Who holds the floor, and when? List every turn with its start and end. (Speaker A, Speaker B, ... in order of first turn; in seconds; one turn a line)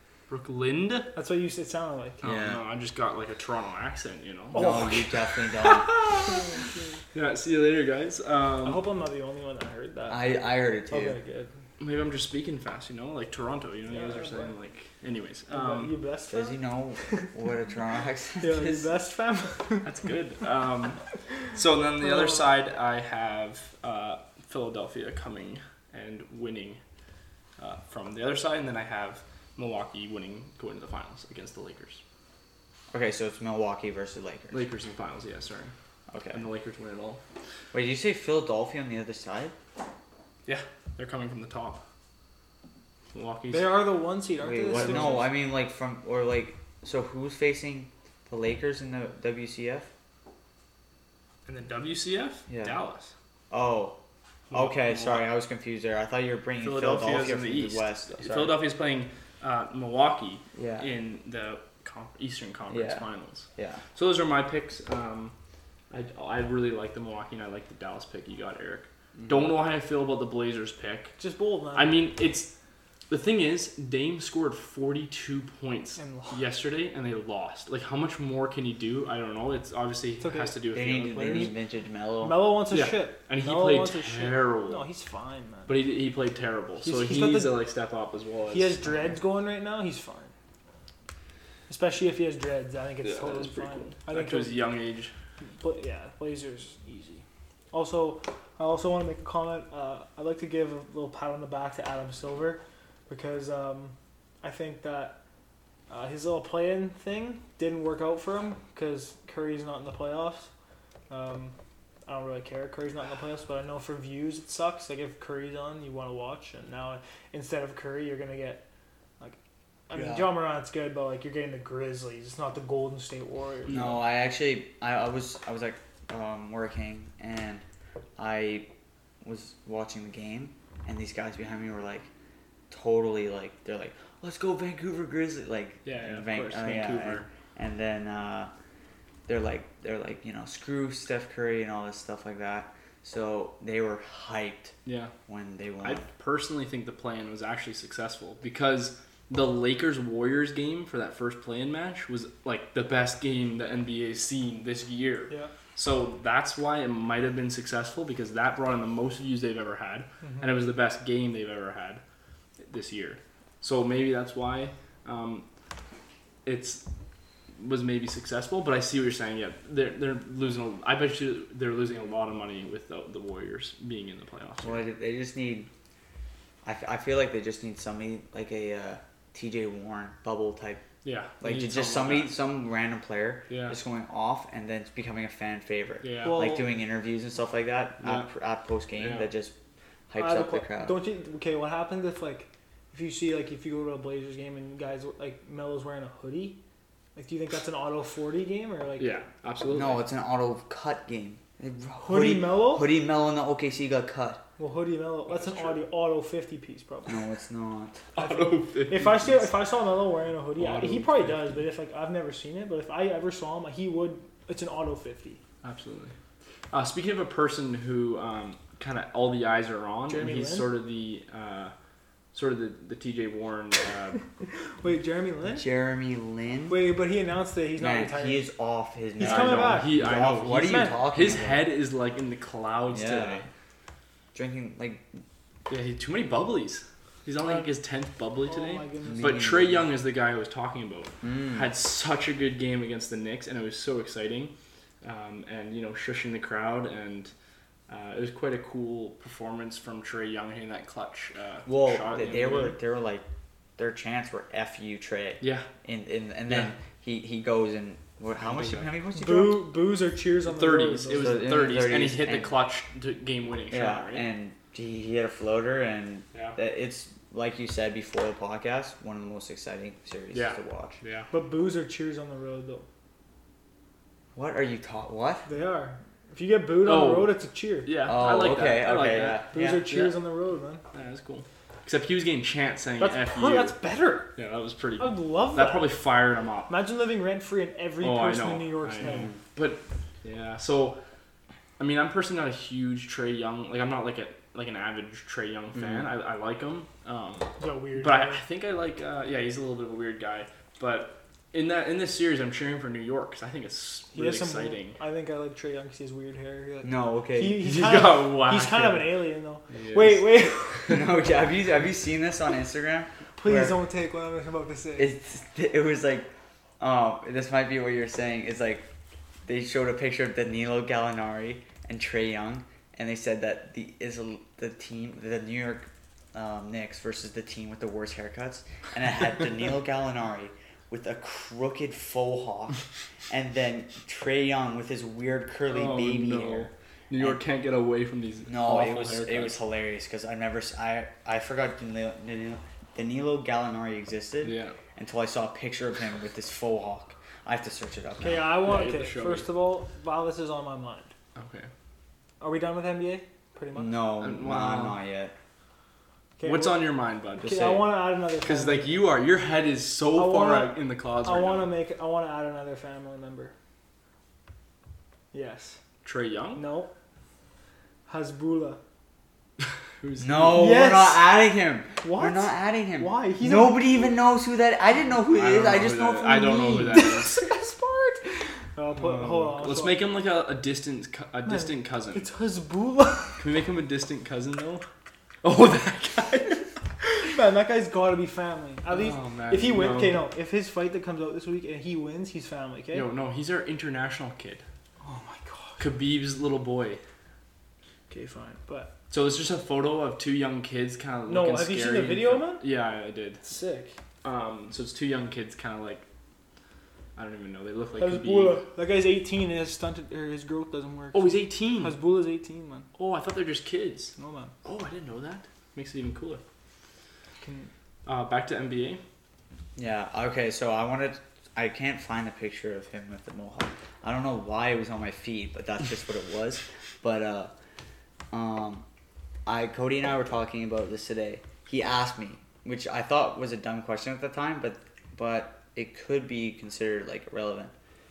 Speaker A: 0.3-1.1
Speaker B: 1.1-2.2
Speaker A: 2.2-5.0
Speaker C: 2.2-2.6
Speaker B: 4.5-5.1
Speaker C: 4.5-5.9
Speaker A: 5.6-8.8
Speaker B: 6.2-7.0
Speaker B: 8.6-10.3
Speaker C: 10.1-11.2
Speaker B: 10.9-11.5
Speaker A: 11.8-15.9
Speaker B: 13.9-14.5
Speaker B: 15.5-16.6
Speaker C: 16.3-18.9
Speaker B: 18.4-19.9
Speaker A: 19.8-26.8
Speaker B: 22.0-22.5
Speaker A: 27.6-32.0
Speaker C: 32.9-34.6
Speaker A: 34.5-35.7
Speaker C: 36.1-36.4
Speaker A: 36.3-37.2
Speaker C: 37.7-39.5
Speaker A: 40.5-41.8
Speaker A: 43.1-43.9
Speaker B: 43.5-45.3
Speaker C: 44.4-49.9
Speaker A: 44.7-45.3
Speaker A: 51.5-53.1
Speaker C: 52.5-52.8
Speaker C: 53.5-54.0
Speaker A: 54.5-55.2
Speaker C: 54.5-58.6
Speaker A: 56.6-65.3
Speaker C: 60.5-60.9
Speaker C: 62.7-63.0
Speaker C: 63.5-63.8
Speaker A: 65.9-71.2
Speaker C: 69.2-69.5
Speaker B: 71.2-72.0
Speaker A: 71.7-72.5
Speaker A: 73.1-81.5
Speaker B: 76.0-76.4
Speaker B: 80.2-80.5
Speaker C: 80.7-82.6
Speaker B: 81.2-81.5
Speaker B: 82.2-85.7
Speaker A: 82.7-84.8
Speaker A: 85.7-88.9
Speaker B: 86.8-87.6
Speaker B: 88.5-90.3
Speaker B: 91.7-94.7
Speaker A: 93.0-95.1
Speaker B: 95.6-105.2
Speaker B: 105.9-110.5
Speaker B: 111.1-111.5
Speaker B: 112.0-118.6
Speaker B: 119.9-123.8
Speaker C: 119.9-120.3
Speaker A: 123.7-124.0
Speaker C: 123.7-127.6
Speaker C: 128.2-128.7
Speaker C: 129.2-132.1
Speaker C: 132.7-138.5
Speaker A: 135.8-137.3
Speaker C: 139.3-144.7
Speaker A: 144.8-145.1
Speaker C: 145.3-146.1
Speaker A: 145.8-162.0
Speaker B: 160.2-160.5
Speaker A: 162.6-165.4
Speaker A: 166.4-166.8
Speaker A: 167.6-174.8
Speaker C: 174.6-175.7
Speaker C: 176.6-180.8
Speaker A: 181.0-182.4
Speaker C: 181.4-189.5
Speaker A: 183.5-183.8
Speaker A: 186.0-186.5
Speaker B: 186.2-186.7
Speaker A: 188.0-188.3
Speaker A: 188.9-189.3
Speaker C: 190.1-191.0
Speaker B: 190.2-196.6
Speaker B: 197.2-199.2
Speaker A: 199.0-200.0
Speaker C: 199.7-204.4
Speaker B: 202.0-202.9
Speaker B: 204.6-207.2
Speaker A: 205.3-205.8
Speaker C: 207.1-208.0
Speaker A: 208.1-209.5
Speaker B: 208.2-215.4
Speaker A: 210.6-211.6
Speaker A: 215.6-216.1
Speaker A: 216.7-221.7
Speaker B: 220.1-220.7
Speaker A: 222.3-224.2
Speaker B: 224.8-225.7
Speaker C: 225.5-226.8
Speaker B: 226.7-228.5
Speaker C: 227.8-231.7
Speaker B: 229.2-229.9
Speaker A: 229.2-233.5
Speaker B: 230.5-231.0
Speaker C: 232.9-233.4
Speaker C: 234.3-235.2
Speaker A: 235.7-247.3
Speaker B: 237.4-237.7
Speaker B: 238.4-239.5
Speaker C: 239.1-239.9
Speaker C: 241.2-241.7
Speaker A: 247.9-252.8
Speaker C: 251.7-253.2
Speaker C: 253.8-259.7
Speaker A: 255.4-255.7
Speaker A: 256.5-256.7
Speaker A: 258.3-258.9
Speaker B: 259.1-261.5
Speaker A: 260.4-264.3
Speaker C: 261.1-262.6
Speaker C: 263.7-271.0
Speaker A: 270.3-271.3
Speaker B: 271.3-272.9
Speaker C: 274.3-275.4
Speaker B: 275.5-277.9
Speaker A: 276.8-280.2
Speaker C: 278.0-279.8
Speaker B: 279.5-280.8
Speaker A: 280.9-283.8
Speaker B: 283.0-284.3
Speaker A: 284.4-286.7
Speaker B: 285.0-286.0
Speaker B: 286.7-289.3
Speaker A: 288.0-291.0
Speaker C: 289.0-289.4
Speaker A: 291.8-305.0
Speaker C: 295.7-296.1
Speaker B: 297.6-298.4
Speaker B: 304.1-311.0
Speaker C: 306.8-307.7
Speaker A: 307.6-311.0
Speaker C: 310.9-313.8
Speaker B: 313.4-315.1
Speaker C: 315.0-316.3
Speaker C: 316.8-318.9
Speaker C: 319.4-337.4
Speaker A: 335.7-339.6
Speaker C: 338.5-348.5
Speaker A: 344.4-344.8
Speaker B: 348.2-351.1
Speaker A: 348.6-349.5
Speaker A: 351.3-351.7
Speaker B: 352.4-354.0
Speaker C: 353.7-355.3
Speaker A: 354.2-355.0
Speaker B: 356.4-358.9
Speaker A: 356.4-357.7
Speaker C: 357.4-357.9
Speaker A: 358.4-361.7
Speaker B: 360.1-363.5
Speaker B: 365.3-365.8
Speaker A: 366.0-366.6
Speaker B: 366.6-366.9
Speaker B: 368.1-368.8
Speaker A: 369.6-370.8
Speaker C: 370.2-376.5
Speaker B: 370.5-371.3
Speaker B: 372.0-374.1
Speaker A: 375.3-377.4
Speaker B: 376.2-380.0
Speaker A: 378.9-382.3
Speaker B: 381.4-383.4
Speaker A: 383.4-384.9
Speaker A: 385.4-386.7
Speaker B: 387.2-393.1
Speaker A: 388.9-390.3
Speaker A: 392.9-394.6
Speaker B: 395.0-395.9
Speaker A: 395.8-397.0
Speaker B: 398.1-398.9
Speaker A: 399.1-403.4
Speaker B: 401.3-402.6
Speaker B: 403.4-404.0
Speaker A: 404.2-406.1
Speaker A: 407.1-408.6
Speaker B: 408.0-412.9
Speaker A: 411.1-412.0
Speaker A: 412.9-414.1
Speaker B: 414.2-414.5
Speaker A: 414.6-416.4
Speaker B: 417.4-417.7
Speaker A: 418.1-419.0
Speaker C: 419.8-427.5
Speaker C: 428.3-428.8
Speaker C: 429.4-437.7